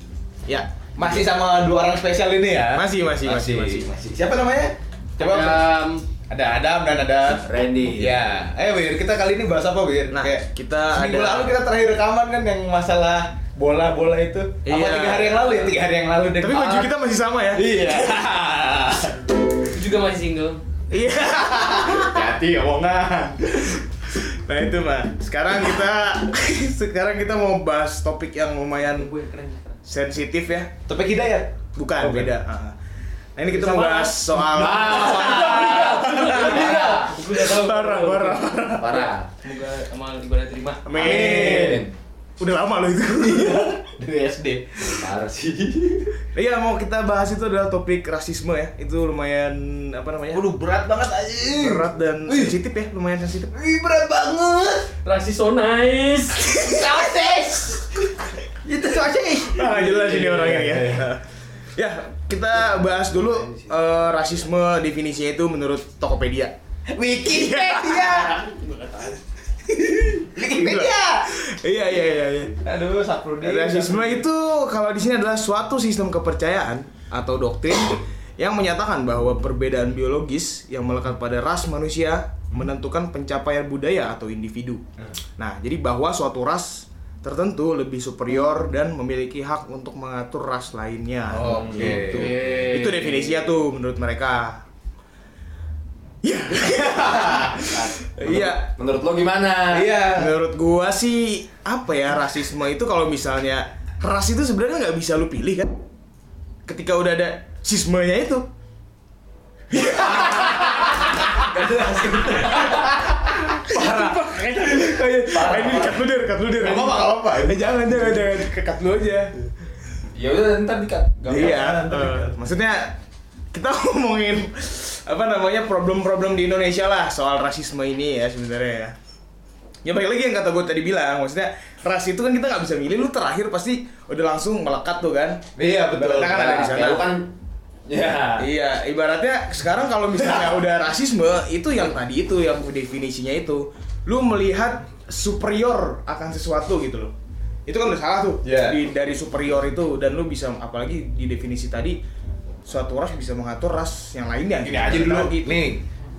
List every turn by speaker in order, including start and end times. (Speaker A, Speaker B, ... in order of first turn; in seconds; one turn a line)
Speaker A: 0.5-1.3
Speaker B: 1.0-5.8
Speaker A: 2.7-3.9
Speaker C: 5.2-6.1
Speaker B: 6.3-16.9
Speaker D: 7.4-8.2
Speaker A: 10.1-11.6
Speaker A: 14.7-15.7
Speaker A: 16.4-17.8
Speaker B: 17.5-19.2
Speaker C: 19.7-20.6
Speaker A: 20.9-22.2
Speaker B: 21.7-23.8
Speaker A: 24.1-29.1
Speaker C: 28.8-29.8
Speaker A: 29.9-30.7
Speaker B: 30.9-32.3
Speaker A: 31.8-32.8
Speaker A: 33.4-39.5
Speaker C: 33.7-34.2
Speaker D: 34.6-37.1
Speaker B: 34.6-35.6
Speaker C: 35.4-38.7
Speaker D: 38.8-39.3
Speaker C: 39.4-40.9
Speaker A: 40.9-41.9
Speaker B: 40.9-41.9
Speaker D: 41.0-41.9
Speaker A: 42.4-43.8
Speaker B: 43.2-45.1
Speaker D: 44.8-46.0
Speaker A: 46.3-50.4
Speaker B: 50.3-52.6
Speaker A: 51.5-53.5
Speaker B: 53.5-54.9
Speaker C: 55.0-56.5
Speaker B: 56.4-61.1
Speaker A: 59.4-61.2
Speaker A: 61.8-66.5
Speaker B: 66.9-68.7
Speaker A: 67.3-68.3
Speaker C: 68.4-69.2
Speaker B: 69.8-71.3
Speaker A: 70.4-72.6
Speaker B: 72.6-74.2
Speaker A: 73.4-84.8
Speaker A: 85.4-94.7
Speaker B: 91.3-92.3
Speaker D: 91.4-92.2
Speaker C: 92.1-93.4
Speaker A: 96.2-98.7
Speaker B: 96.7-97.5
Speaker D: 97.7-100.0
Speaker B: 99.7-100.4
Speaker A: 100.1-105.7
Speaker A: 106.7-108.5
Speaker A: 109.7-110.7
Speaker B: 109.7-110.9
Speaker D: 111.4-112.9
Speaker B: 111.4-113.2
Speaker A: 113.6-119.3
Speaker B: 113.7-114.1
Speaker D: 115.4-116.0
Speaker B: 116.6-118.2
Speaker D: 120.1-121.8
Speaker A: 121.3-123.0
Speaker B: 121.3-122.3
Speaker A: 123.5-128.9
Speaker A: 129.8-137.1
Speaker B: 135.6-136.5
Speaker D: 136.1-137.3
Speaker D: 137.9-138.5
Speaker A: 138.4-147.1
Speaker A: 147.7-152.0
Speaker B: 148.4-148.8
Speaker A: 152.7-155.8
Speaker B: 154.7-155.8